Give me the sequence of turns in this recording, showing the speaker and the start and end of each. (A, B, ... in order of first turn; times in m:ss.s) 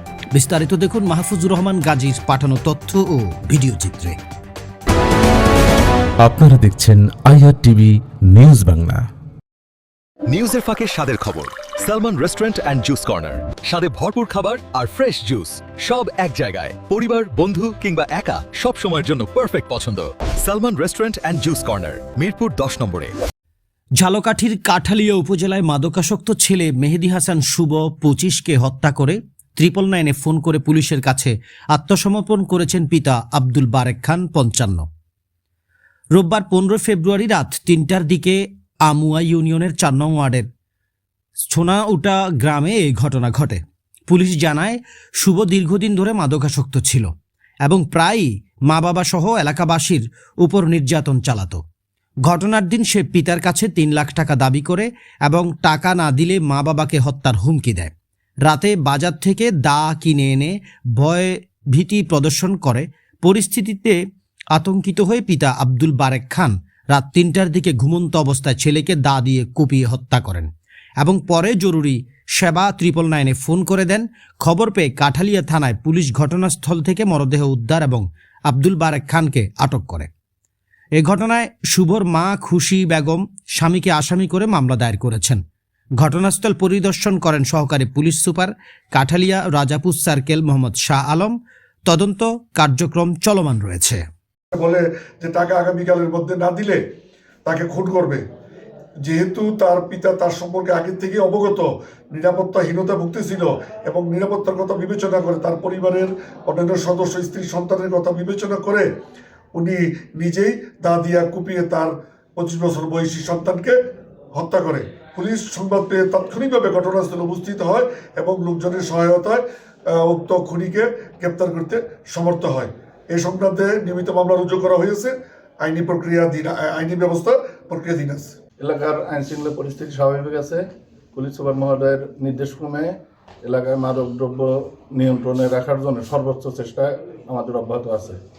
0:00.4-0:04.2 A
0:06.2-0:09.1 B
0:10.3-0:23.1 C
0:24.0-0:34.8 A
0:36.2-0:40.5 A
0:41.5-0:47.1 A
0:47.6-0:51.6 A
0:52.3-0:57.9 A
0:58.5-1:04.0 A
1:04.5-1:10.5 A
1:11.0-1:20.1 A
1:21.0-1:25.4 A
1:26.0-1:31.4 A
1:31.9-1:34.0 A
1:34.6-1:36.8 D
1:37.5-1:38.2 D
1:39.0-1:48.9 D
1:49.6-1:53.8 D
1:54.3-2:08.3 D
2:08.6-2:18.2 E